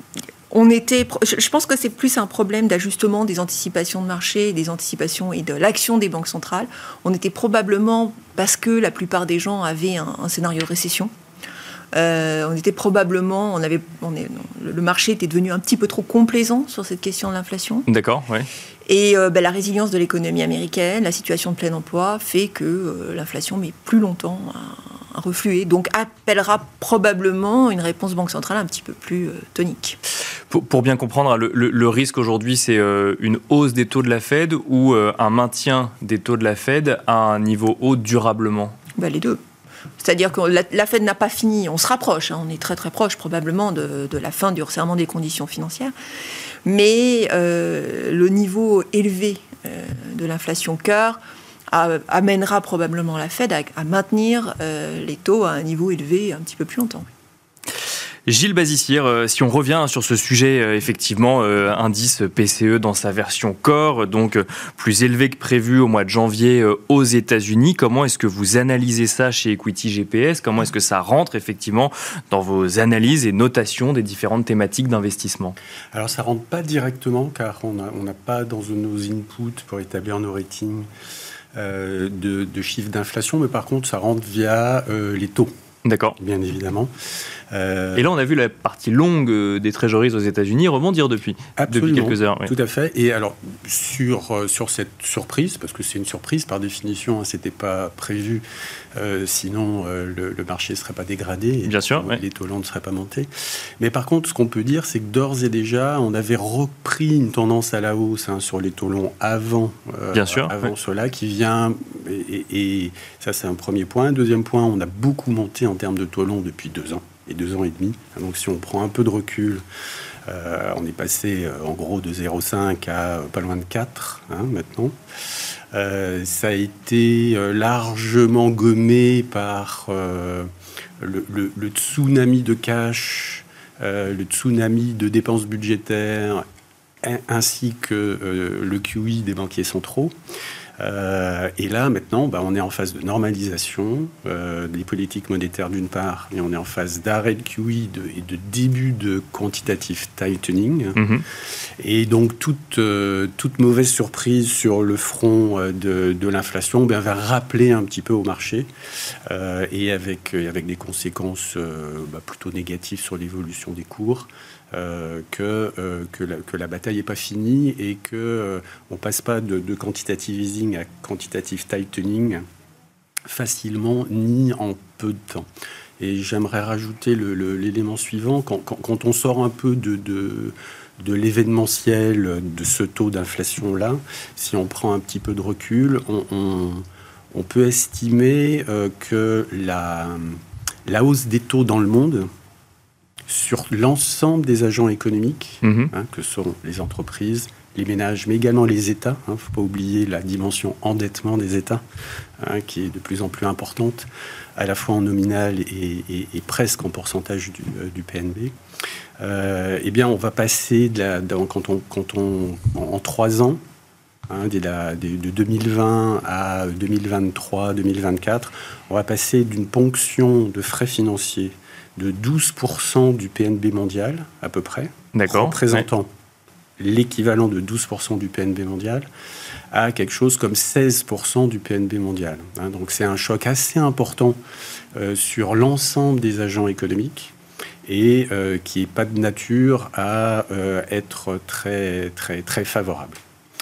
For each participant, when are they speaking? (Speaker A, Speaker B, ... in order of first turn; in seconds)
Speaker A: 0.5-11.1, 11.9-17.9, 18.9-30.0, 39.0-39.4, 40.0-45.9, 46.6-51.2, 51.7-57.1
Speaker B: 17.9-18.5, 30.5-38.8, 58.3-75.5, 85.8-86.2, 87.9-92.5, 101.7-102.2, 110.1-110.7, 151.0-151.2, 195.6-195.9, 225.1-225.8
Speaker C: 75.9-80.9, 81.5-85.5, 86.2-86.9, 87.5-88.1, 91.6-98.4, 98.9-119.6, 120.2-124.9, 125.7-130.5, 131.0-136.4, 137.0-140.1, 140.8-151.0, 151.8-158.7, 159.3-172.4, 173.3-175.5, 176.0-192.3, 193.3-201.8, 202.4-208.5, 209.2-213.6, 214.3-226.1, 226.8-229.1, 229.7-234.4, 234.9-237.3, 237.8-243.2